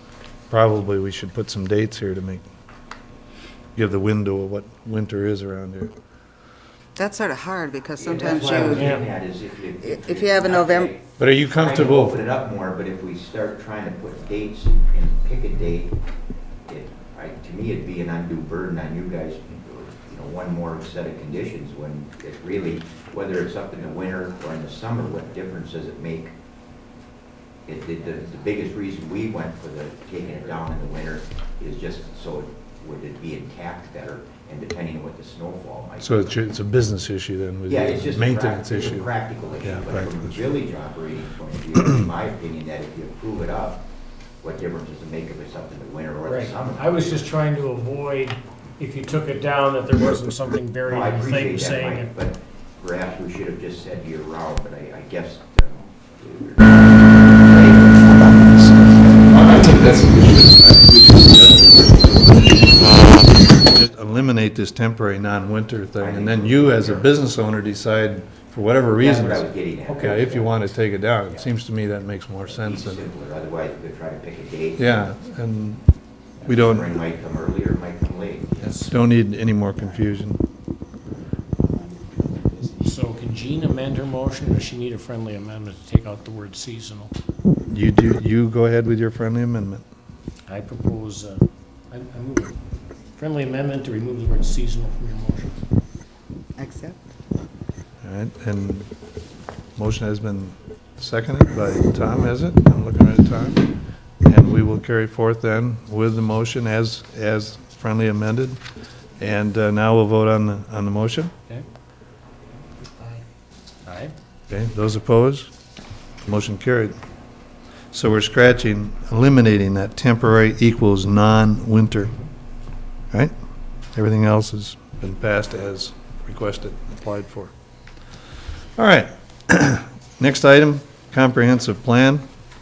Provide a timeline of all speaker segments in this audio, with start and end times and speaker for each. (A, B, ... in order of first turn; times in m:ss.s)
0:00.5-0:02.4 A
0:03.8-0:05.9 A
0:07.0-0:09.2 B
0:08.0-0:16.0 C
0:08.4-0:09.1 D
0:09.8-0:10.9 B
0:11.2-0:12.2 A
0:16.7-0:26.3 C
0:27.7-0:36.4 C
0:36.0-0:39.1 A
0:37.7-0:43.9 C
0:39.6-0:40.3 A
0:44.4-0:47.3 C
0:46.3-0:52.1 D
0:50.8-1:00.0 C
0:58.1-1:13.1 A
1:06.0-1:07.1 C
1:09.0-1:10.6 C
1:12.4-1:15.1 C
1:14.8-1:15.8 A
1:16.4-1:18.9 C
1:16.4-1:17.0 A
1:18.8-1:20.4 A
1:21.6-1:22.9 B
1:22.8-1:27.1 D
1:27.7-1:29.8 A
1:30.5-1:32.6 D
1:33.2-1:35.6 D
1:36.6-1:37.1 B
1:38.0-1:38.9 A
1:39.8-1:43.6 A
1:44.2-1:48.6 A
1:49.2-1:51.3 A
1:53.0-1:53.2 D
1:53.8-1:54.2 D
1:54.5-1:55.5 A
1:56.2-1:57.0 A
1:57.9-2:02.2 A
2:03.9-2:07.5 A
2:08.8-2:12.2 A